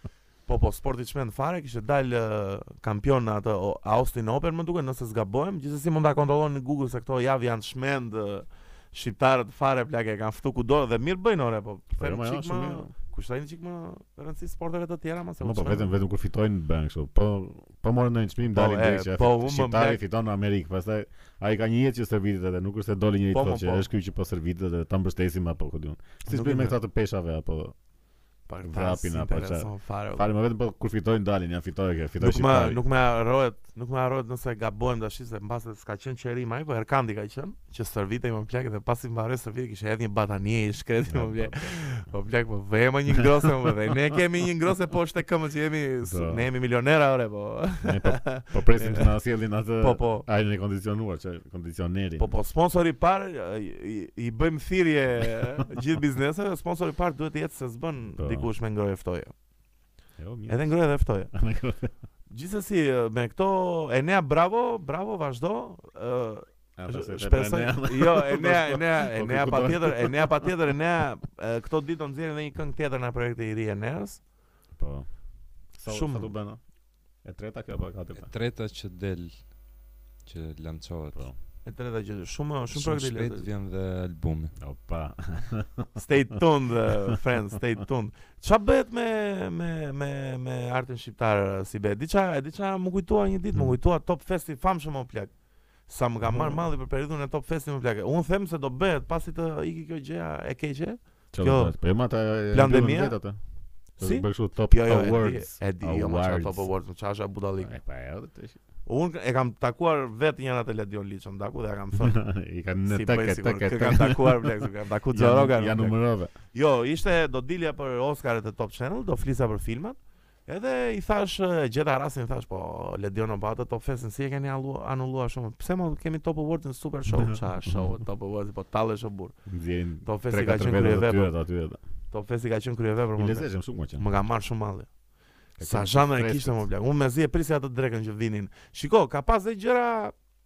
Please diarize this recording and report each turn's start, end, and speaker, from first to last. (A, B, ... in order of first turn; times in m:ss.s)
0:00.5-0:15.9 A
0:12.0-0:12.9 B
0:15.4-0:27.8 B
0:18.5-0:20.0 A
0:23.3-0:23.9 A
0:26.2-0:26.8 A
0:28.5-0:30.3 A
0:28.6-0:32.8 B
0:32.2-0:49.1 A
0:41.1-0:41.9 B
0:46.0-0:46.4 B
0:47.8-0:52.3 B
0:49.8-0:50.3 A
0:52.2-0:59.3 A
0:58.2-0:58.5 B
1:00.2-1:00.6 B
1:00.5-1:01.3 A
1:01.3-1:01.9 B
1:02.3-1:14.2 A
1:06.8-1:10.5 B
1:14.8-1:15.1 B
1:15.8-1:16.6 B
1:15.9-1:16.3 A
1:17.2-1:18.3 B
1:18.2-1:19.5 C
1:20.3-1:21.3 C
1:21.6-1:23.5 A
1:22.7-1:24.5 C
1:24.6-1:26.0 B
1:26.0-1:35.3 A
1:35.9-1:41.8 A
1:36.2-1:36.6 B
1:41.3-1:43.4 B
1:42.5-1:43.2 A
1:44.0-1:46.7 B
1:44.0-1:47.7 A
1:47.6-1:48.6 B
1:48.9-1:52.2 A
1:52.0-1:56.3 B
1:52.9-1:56.0 A
1:56.5-2:09.4 A
2:07.2-2:07.9 B
2:09.5-2:11.8 B
2:10.0-2:11.3 A
2:12.1-2:14.9 A
2:13.2-2:14.0 B
2:15.6-2:16.7 B
2:15.6-2:20.2 A